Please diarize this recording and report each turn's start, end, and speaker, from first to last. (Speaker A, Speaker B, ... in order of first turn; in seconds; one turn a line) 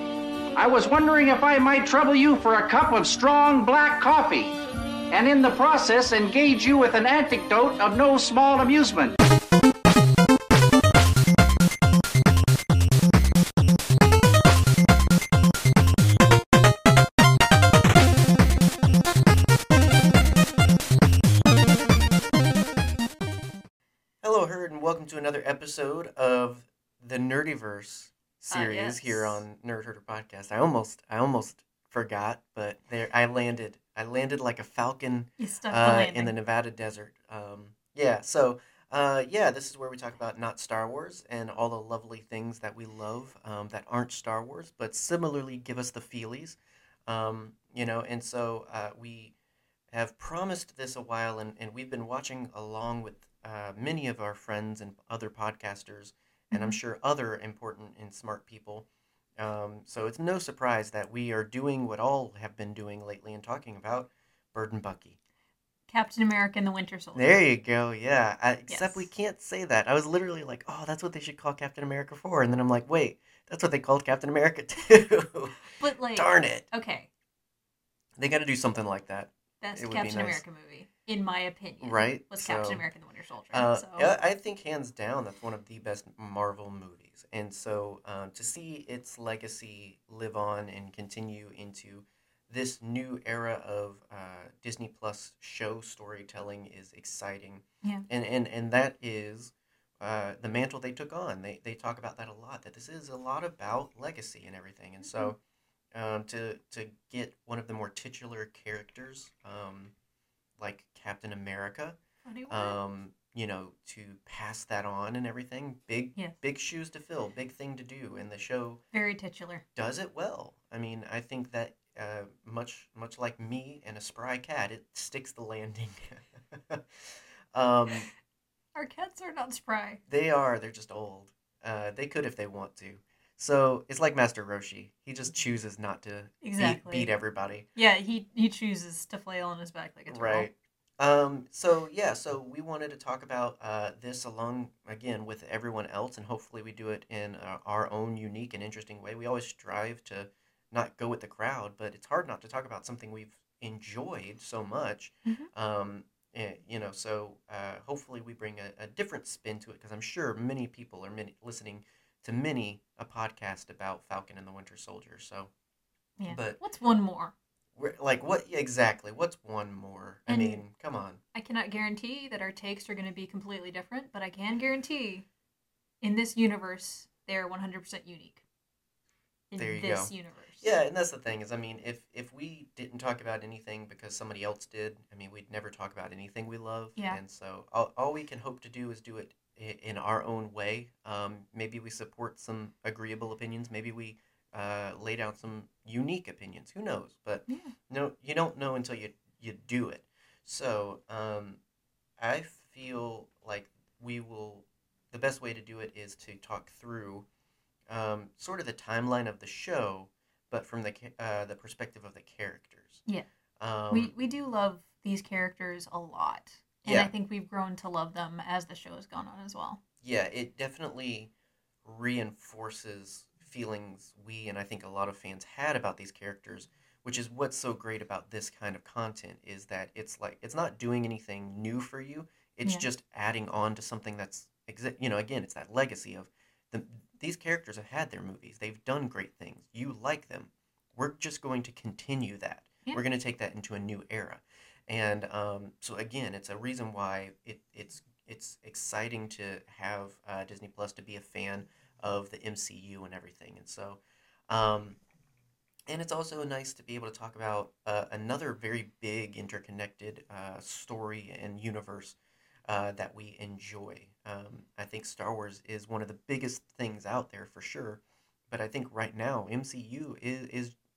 Speaker A: 0.6-4.6
Speaker A: 5.1-9.2
Speaker B: 24.2-49.3
Speaker C: 28.5-29.4
Speaker C: 35.4-36.4
Speaker B: 49.9-58.9
Speaker C: 56.5-56.8
Speaker B: 59.4-65.2
Speaker C: 65.9-67.3
Speaker B: 67.2-76.7
Speaker C: 68.7-69.1
Speaker C: 75.8-77.1
Speaker B: 78.2-80.4
Speaker C: 79.6-84.1
Speaker B: 81.8-82.8
Speaker B: 83.5-105.4
Speaker C: 105.0-105.3
Speaker B: 105.9-109.9
Speaker B: 110.6-112.0
Speaker C: 112.2-112.8
Speaker B: 112.5-118.8
Speaker C: 118.9-119.7
Speaker B: 119.8-128.1
Speaker C: 128.7-130.0
Speaker B: 130.1-137.7
Speaker C: 136.4-137.1
Speaker C: 137.8-140.5
Speaker B: 140.1-165.5
Speaker C: 155.2-155.5
Speaker C: 166.2-167.3
Speaker B: 166.3-166.6
Speaker B: 167.8-171.2
Speaker C: 170.3-170.6
Speaker C: 171.3-175.3
Speaker C: 176.0-178.4
Speaker C: 179.5-180.7
Speaker B: 179.6-201.6
Speaker C: 197.5-197.7
Speaker B: 202.2-207.2
Speaker B: 207.9-213.0
Speaker B: 213.6-214.1
Speaker C: 213.9-219.8
Speaker B: 216.8-217.1
Speaker B: 220.0-221.3
Speaker B: 221.8-255.0
Speaker B: 255.9-262.2
Speaker B: 262.7-270.8